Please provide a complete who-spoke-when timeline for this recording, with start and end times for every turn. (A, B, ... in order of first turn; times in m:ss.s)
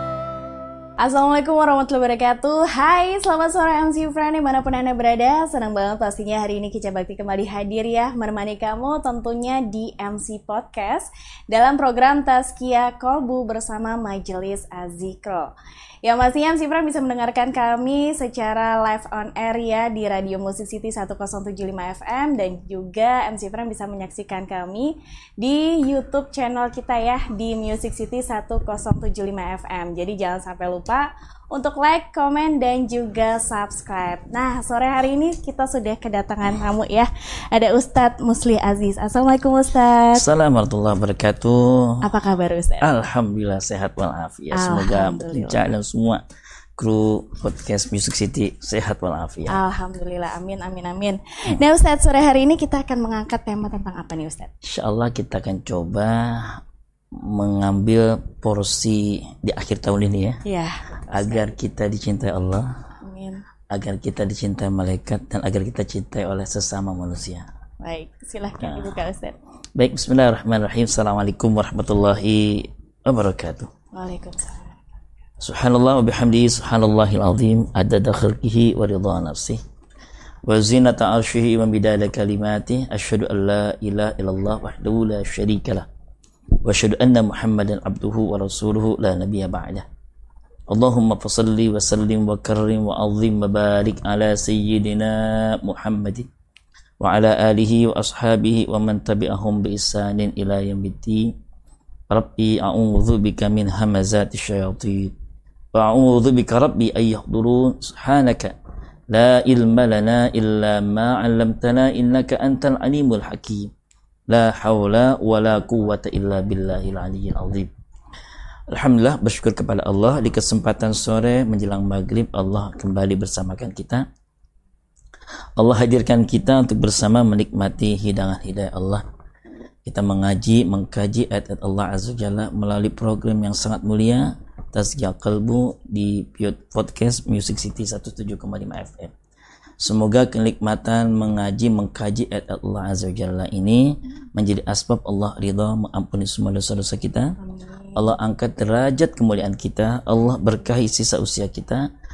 0:01.0-0:40.2 A
0:40.1-0:42.1 B
0:42.0-0:42.9 A
0:42.8-0:46.2 B
0:44.5-0:45.7 A
0:46.8-0:49.6 B
0:49.5-0:54.5 A
0:54.6-0:56.6 B
0:57.2-1:00.4 B
1:00.4-1:01.5 A
1:01.1-1:02.7 B
1:03.0-1:03.4 A
1:03.7-1:07.5 B
1:07.8-1:09.4 A
1:08.6-1:09.0 B
1:09.8-1:13.7 B
1:13.9-1:14.8 A
1:15.4-1:19.6 B
1:20.5-1:25.9 B
1:26.6-1:29.9 B
1:30.7-1:36.3 B
1:37.0-1:41.4 B
1:42.1-1:45.1 B
1:45.8-1:48.6 B
1:49.1-1:53.7 B
1:54.3-1:57.7 B
1:58.7-2:04.1 B
2:05.6-2:09.0 B
2:09.8-2:19.1 B
2:19.8-2:27.4 B
2:27.4-2:28.2 A
2:28.0-2:31.9 B